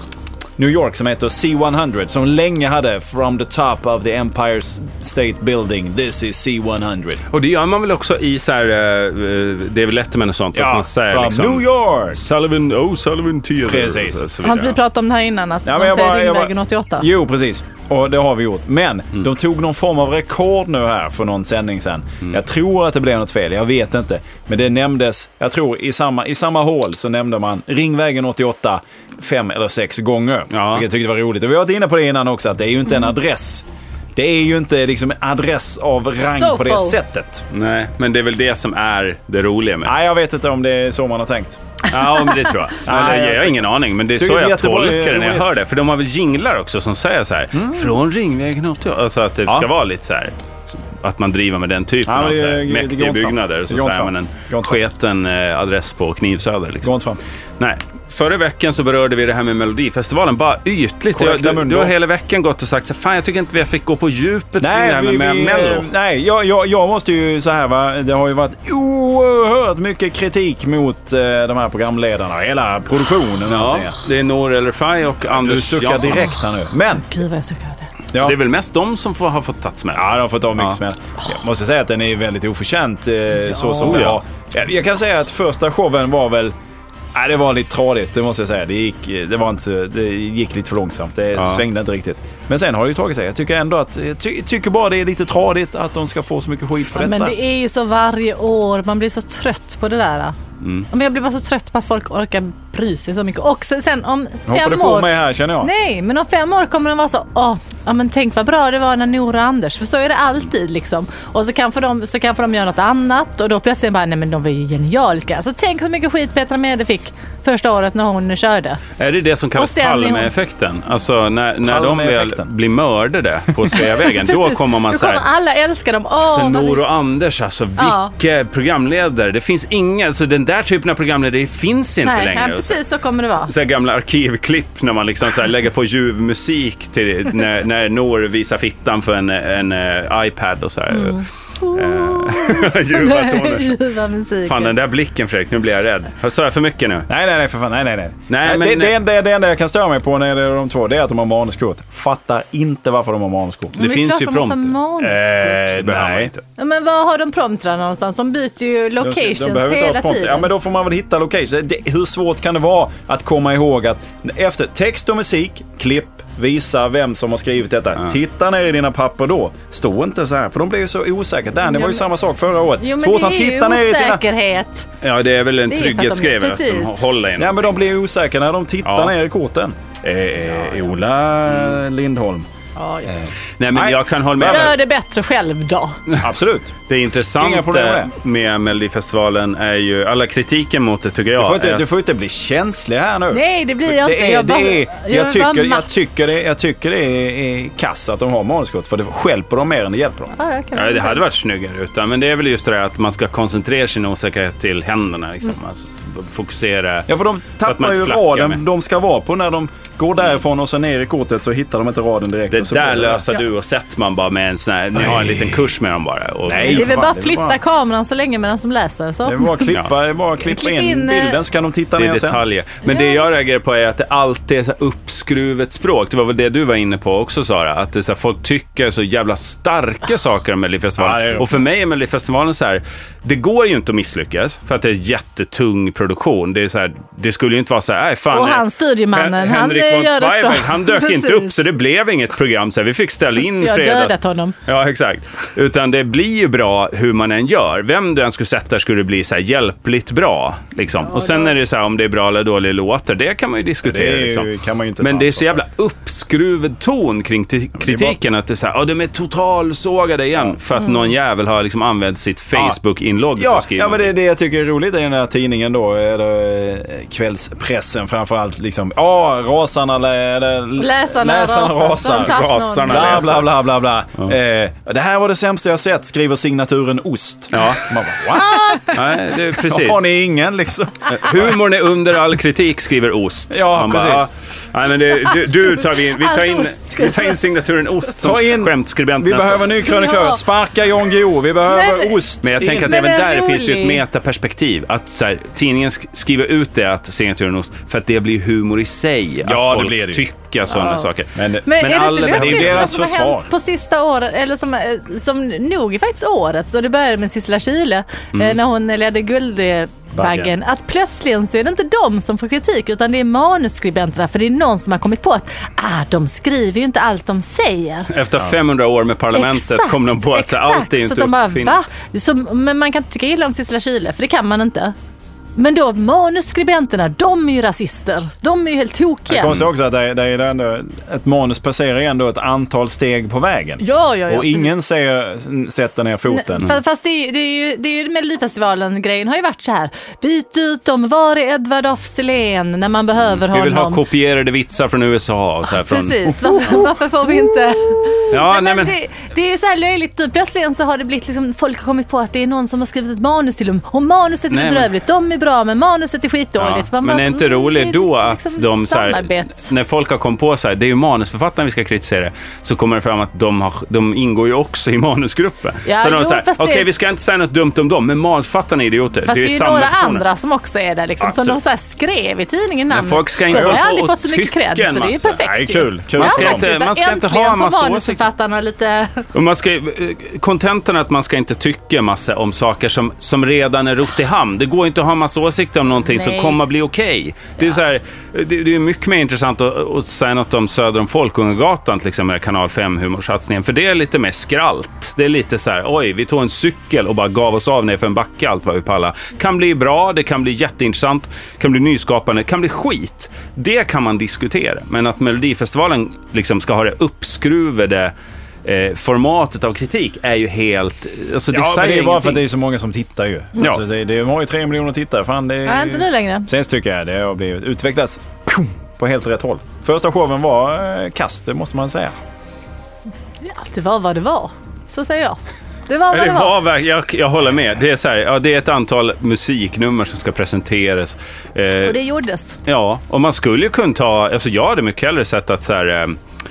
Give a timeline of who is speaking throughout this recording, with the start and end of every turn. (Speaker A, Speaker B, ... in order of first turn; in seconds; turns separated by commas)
Speaker A: 0.6-7.2, Speaker B: 7.3-14.8, Speaker A: 10.5-12.2, Speaker A: 13.6-14.2, Speaker C: 14.4-17.1, Speaker A: 15.6-37.4, Speaker B: 30.5-30.9, Speaker C: 36.4-37.0, Speaker B: 37.5-39.9, Speaker A: 39.8-41.6, Speaker B: 41.9-56.9, Speaker A: 42.8-43.6, Speaker A: 44.1-45.5, Speaker A: 47.5-47.9, Speaker A: 52.0-54.8, Speaker A: 56.8-57.2, Speaker B: 57.6-65.9, Speaker A: 61.1-61.9, Speaker A: 64.6-74.0, Speaker B: 73.5-76.4, Speaker A: 75.4-77.1, Speaker C: 76.9-77.9, Speaker B: 78.1-80.8, Speaker A: 79.9-86.5, Speaker C: 83.5-84.0, Speaker B: 83.8-84.2, Speaker A: 87.1-97.4, Speaker B: 91.3-91.7, Speaker C: 96.9-100.3, Speaker B: 100.6-100.9, Speaker C: 100.9-118.8, Speaker A: 104.5-105.7, Speaker B: 119.0-125.2, Speaker C: 119.5-120.3, Speaker A: 121.6-122.5, Speaker C: 123.8-126.8, Speaker B: 126.2-132.8, Speaker C: 127.8-128.1, Speaker C: 132.0-133.5, Speaker B: 133.4-143.8, Speaker C: 140.9-144.7, Speaker B: 144.4-147.1, Speaker A: 147.1-153.8, Speaker B: 148.3-148.9, Speaker B: 153.7-154.8, Speaker C: 153.8-155.7, Speaker A: 155.0-156.3, Speaker B: 155.5-156.4, Speaker C: 156.6-160.5, Speaker A: 159.0-174.2, Speaker C: 171.7-172.0, Speaker C: 172.8-174.8, Speaker B: 175.0-177.7, Speaker C: 175.7-177.0, Speaker A: 177.4-182.5, Speaker B: 178.8-179.1, Speaker C: 182.8-183.2, Speaker A: 183.2-184.7, Speaker B: 183.6-184.8, Speaker C: 184.4-186.0, Speaker A: 186.2-186.8, Speaker B: 186.9-191.8, Speaker A: 187.4-188.1, Speaker A: 191.4-200.3, Speaker C: 193.3-195.9, Speaker C: 200.3-201.2, Speaker B: 200.7-207.1, Speaker A: 207.1-213.3, Speaker B: 207.6-208.6, Speaker B: 212.5-216.9, Speaker A: 215.0-215.6, Speaker A: 216.4-217.6, Speaker C: 216.5-219.7, Speaker A: 219.2-222.4, Speaker C: 220.4-221.4, Speaker B: 221.9-244.1, Speaker C: 222.8-223.3, Speaker A: 231.0-231.6, Speaker C: 238.3-241.6, Speaker C: 243.6-244.5, Speaker B: 244.7-254.5, Speaker C: 251.1-251.5, Speaker A: 253.8-255.6, Speaker B: 255.0-264.1, Speaker A: 257.8-258.1, Speaker C: 260.8-261.1, Speaker A: 263.4-281.6, Speaker C: 270.8-273.4, Speaker B: 272.2-273.6, Speaker B: 277.5-277.9, Speaker C: 278.5-278.8, Speaker B: 278.8-280.0, Speaker B: 281.1-289.8, Speaker A: 283.5-284.3, Speaker C: 285.9-287.4, Speaker A: 288.2-293.0, Speaker C: 289.8-290.4, Speaker C: 291.7-292.2, Speaker B: 292.4-302.9, Speaker C: 292.8-294.0, Speaker A: 299.4-300.2, Speaker C: 300.7-301.0, Speaker A: 301.3-301.7, Speaker C: 301.6-318.1, Speaker A: 302.2-303.5, Speaker A: 310.1-310.5, Speaker B: 318.1-321.8, Speaker C: 319.3-324.9, Speaker C: 325.6-329.6, Speaker A: 329.3-336.7, Speaker C: 333.8-334.7, Speaker C: 336.3-344.0, Speaker B: 343.3-346.8, Speaker C: 345.7-359.6, Speaker B: 348.3-348.9, Speaker B: 354.5-354.9, Speaker B: 356.6-370.2, Speaker C: 365.9-366.9, Speaker C: 369.2-379.3, Speaker B: 371.2-371.6, Speaker B: 372.9-375.5, Speaker A: 373.5-373.8, Speaker A: 375.4-376.6, Speaker B: 376.2-378.2, Speaker B: 379.3-408.1, Speaker C: 386.1-386.6, Speaker B: 408.6-412.4, Speaker A: 411.5-422.1, Speaker C: 415.6-416.5, Speaker C: 423.4-426.6, Speaker B: 426.1-432.0, Speaker C: 431.8-432.6, Speaker B: 432.6-436.2